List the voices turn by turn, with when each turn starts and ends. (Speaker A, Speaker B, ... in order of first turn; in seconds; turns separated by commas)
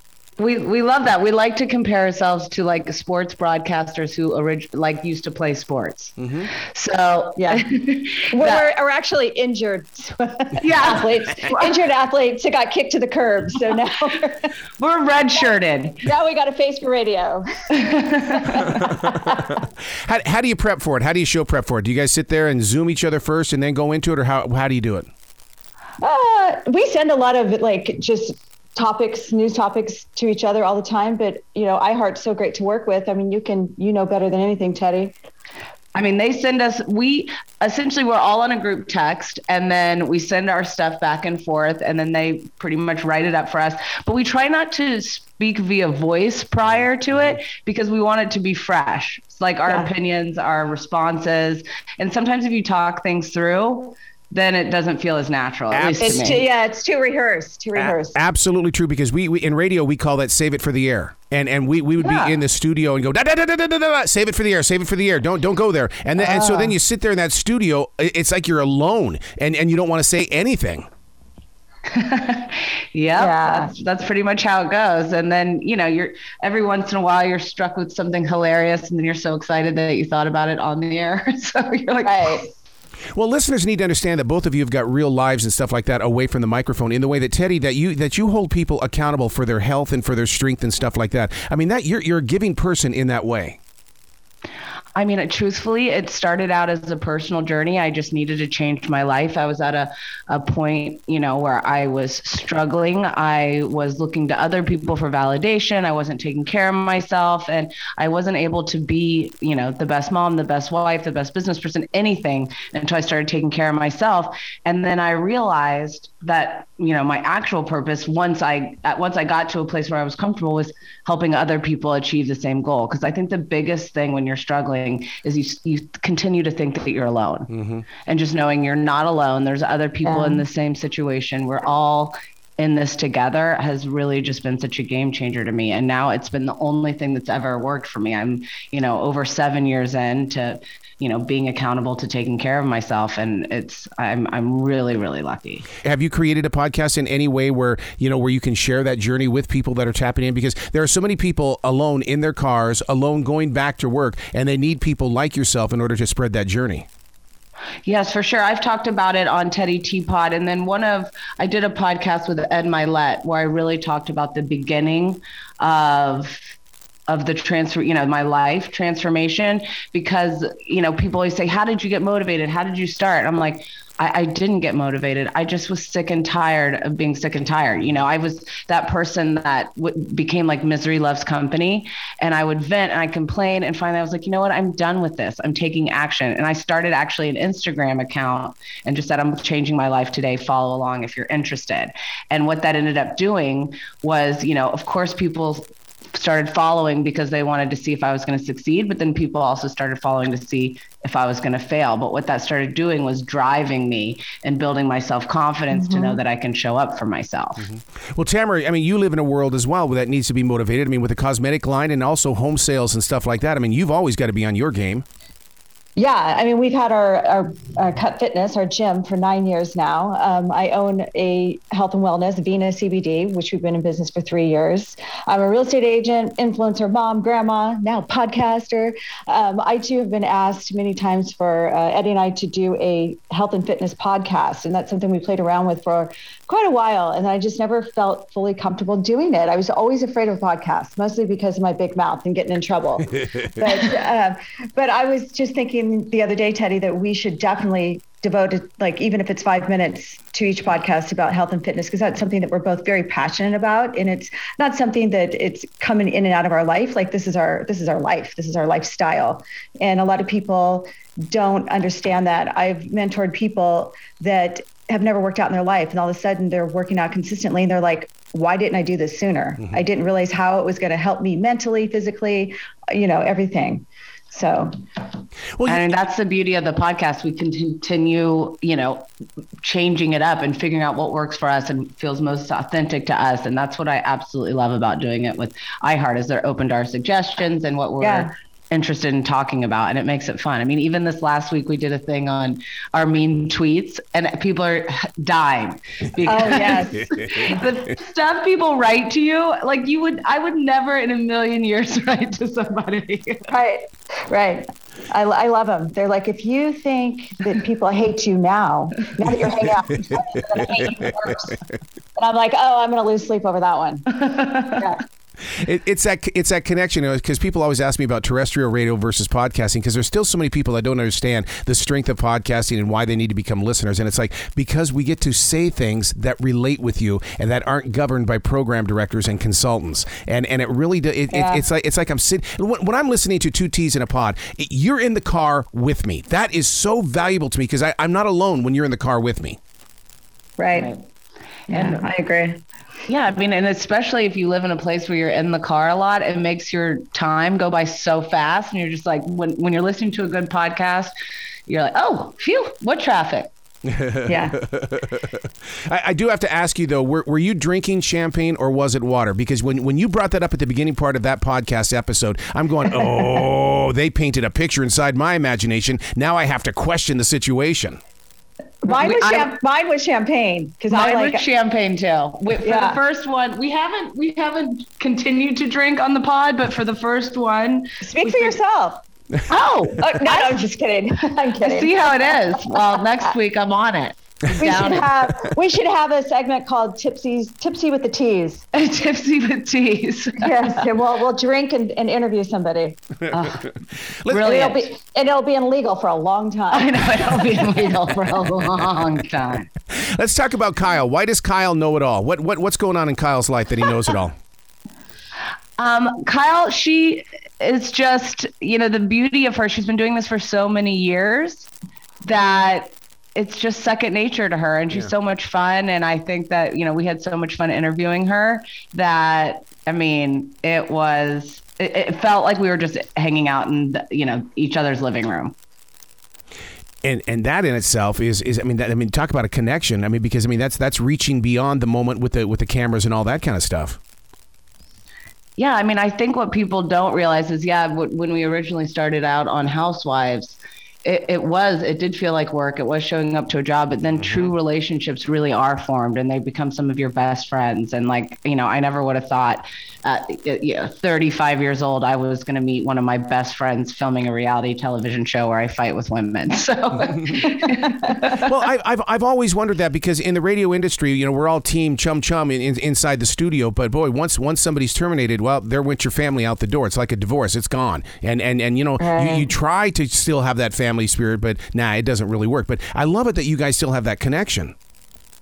Speaker A: 0.4-6.2, Speaker B: 6.2-6.5, Speaker A: 6.7-8.7, Speaker C: 7.4-7.6, Speaker C: 8.3-14.5, Speaker A: 10.6-11.8, Speaker A: 14.8-16.0, Speaker C: 16.0-17.4, Speaker A: 17.7-18.8, Speaker C: 18.5-19.5, Speaker B: 18.9-25.1, Speaker C: 26.0-35.1, Speaker A: 35.9-56.4, Speaker B: 55.7-56.3, Speaker C: 56.0-58.2, Speaker B: 57.8-70.9, Speaker A: 62.0-62.4, Speaker C: 66.2-66.8, Speaker A: 71.9-82.5, Speaker C: 73.2-73.7, Speaker C: 82.0-82.4, Speaker B: 83.1-93.6, Speaker A: 95.0-127.5, Speaker B: 127.5-127.8, Speaker A: 128.0-145.7, Speaker C: 130.0-130.4, Speaker B: 145.8-156.9, Speaker A: 157.8-166.4, Speaker A: 167.1-207.6, Speaker C: 205.7-206.2, Speaker B: 207.6-215.0, Speaker C: 215.9-274.7, Speaker B: 275.6-275.9, Speaker A: 275.6-279.1, Speaker A: 279.6-303.5, Speaker C: 288.0-288.3, Speaker C: 296.2-297.0, Speaker C: 303.5-311.6, Speaker C: 312.1-315.0, Speaker A: 314.2-314.8, Speaker B: 315.5-339.6, Speaker C: 331.3-331.6, Speaker C: 340.6-340.9, Speaker A: 340.7-341.0, Speaker C: 341.7-342.6, Speaker A: 341.7-342.0, Speaker A: 343.1-351.1, Speaker A: 351.7-353.5, Speaker B: 353.9-355.2, Speaker C: 354.3-354.6, Speaker B: 355.9-368.0, Speaker C: 368.8-371.4, Speaker A: 368.9-369.5, Speaker A: 370.9-378.6, Speaker C: 372.6-373.0, Speaker C: 378.0-379.0, Speaker A: 379.5-380.6, Speaker C: 380.0-382.7, Speaker A: 381.6-385.1, Speaker C: 384.6-388.6, Speaker A: 388.7-390.8, Speaker C: 390.4-393.0, Speaker A: 393.3-393.7, Speaker A: 394.3-394.9, Speaker C: 394.3-397.7, Speaker A: 396.7-399.7, Speaker B: 399.9-404.4, Speaker A: 405.8-411.7, Speaker A: 412.2-425.5, Speaker B: 427.0-434.0, Speaker A: 435.6-458.5, Speaker B: 458.3-474.7, Speaker C: 469.0-469.5